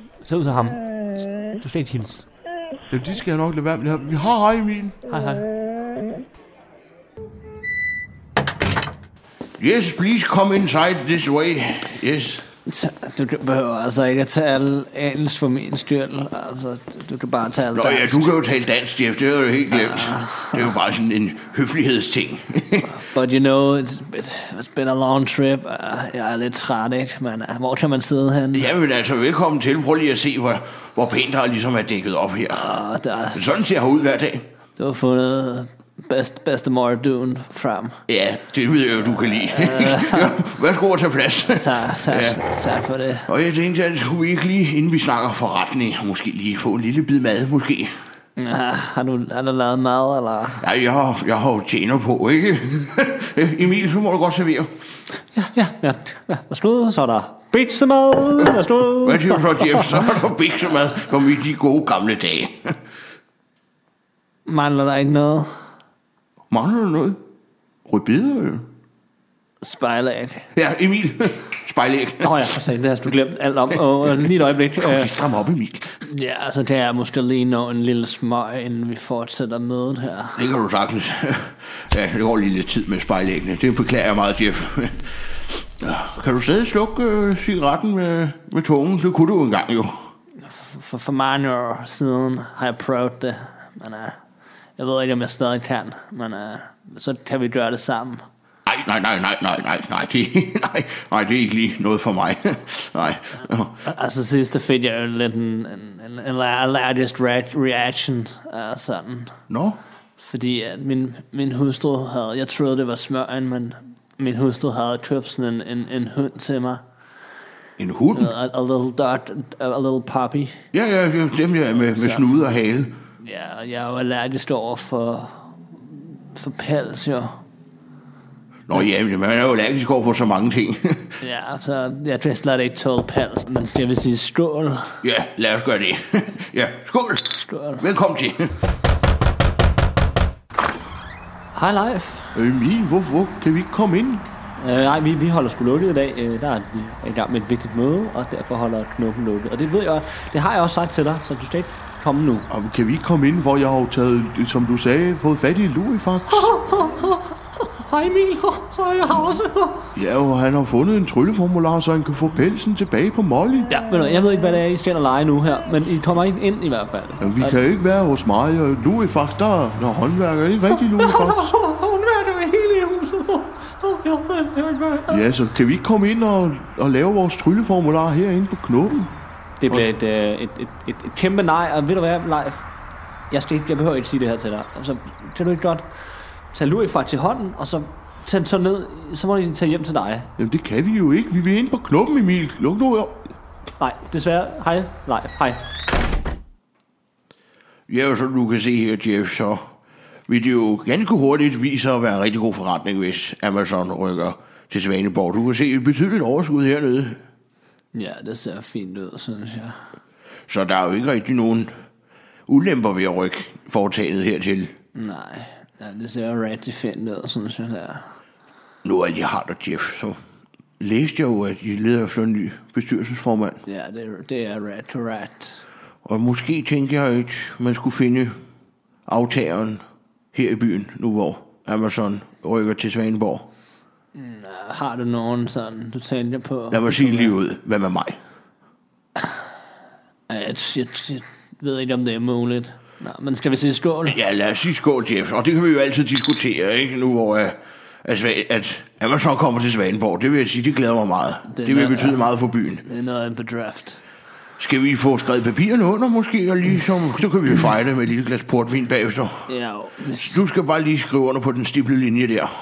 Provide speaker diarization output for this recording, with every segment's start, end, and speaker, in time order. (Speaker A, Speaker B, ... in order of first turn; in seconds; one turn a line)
Speaker A: 0.2-2.2
Speaker B: 2.9-5.0
Speaker A: 5.1-5.5
Speaker C: 9.6-12.5
Speaker A: 12.7-18.3
Speaker C: 17.7-23.0
Speaker A: 19.7-20.7
Speaker A: 22.9-28.7
Speaker C: 28.5-32.6
Speaker A: 32.5-33.4
Speaker C: 33.3-34.5
Speaker A: 34.8-38.0
Speaker C: 38.1-42.4
Speaker A: 39.4-40.4
Speaker A: 41.5-43.3
Speaker C: 43.3-47.9
Speaker A: 48.4-50.6
Speaker C: 50.6-54.7
Speaker A: 55.3-60.1
Speaker C: 59.0-62.8
Speaker A: 64.5-65.5
Speaker C: 66.5-67.2
Speaker C: 67.8-68.7
Speaker A: 69.6-70.5
Speaker C: 70.5-72.3
Speaker A: 72.2-75.1
Speaker C: 74.8-75.9
Speaker A: 76.0-80.4
Speaker C: 80.3-90.0
Speaker A: 90.4-94.2
Speaker A: 94.8-98.2
Speaker C: 98.7-103.8
Speaker A: 103.8-109.3
Speaker C: 109.5-109.8
Speaker A: 110.2-116.8
Speaker C: 117.8-118.3
Speaker A: 118.1-120.6
Speaker C: 120.7-123.0
Speaker A: 121.9-122.2
Speaker A: 123.2-127.4
Speaker C: 128.7-131.2
Speaker A: 131.2-135.0
Speaker C: 135.0-138.5
Speaker A: 137.4-137.8
Speaker A: 141.5-142.3
Speaker B: 142.3-144.2
Speaker A: 144.6-152.5
Speaker B: 152.5-156.6
Speaker A: 156.3-159.9
Speaker B: 160.0-163.7
Speaker A: 163.7-167.6
Speaker B: 167.2-171.5
Speaker A: 170.8-175.2
Speaker B: 175.1-179.1
Speaker A: 179.6-182.6
Speaker A: 183.3-190.3
Speaker B: 190.4-193.3
Speaker A: 193.8-195.6
Speaker C: 197.9-199.7
Speaker C: 200.3-207.2
Speaker A: 207.9-209.8
Speaker C: 210.5-211.7
Speaker C: 212.5-214.7
Speaker A: 214.9-218.1
Speaker C: 218.8-220.2
Speaker C: 220.8-223.6
Speaker A: 223.6-225.6
Speaker C: 226.1-228.4
Speaker C: 229.1-229.8
Speaker C: 230.3-233.5
Speaker A: 234.1-237.3
Speaker C: 236.7-238.2
Speaker A: 240.3-244.2
Speaker C: 244.1-252.8
Speaker A: 251.4-252.2
Speaker A: 252.8-254.0
Speaker C: 254.6-259.5
Speaker A: 259.5-260.4
Speaker C: 260.2-262.5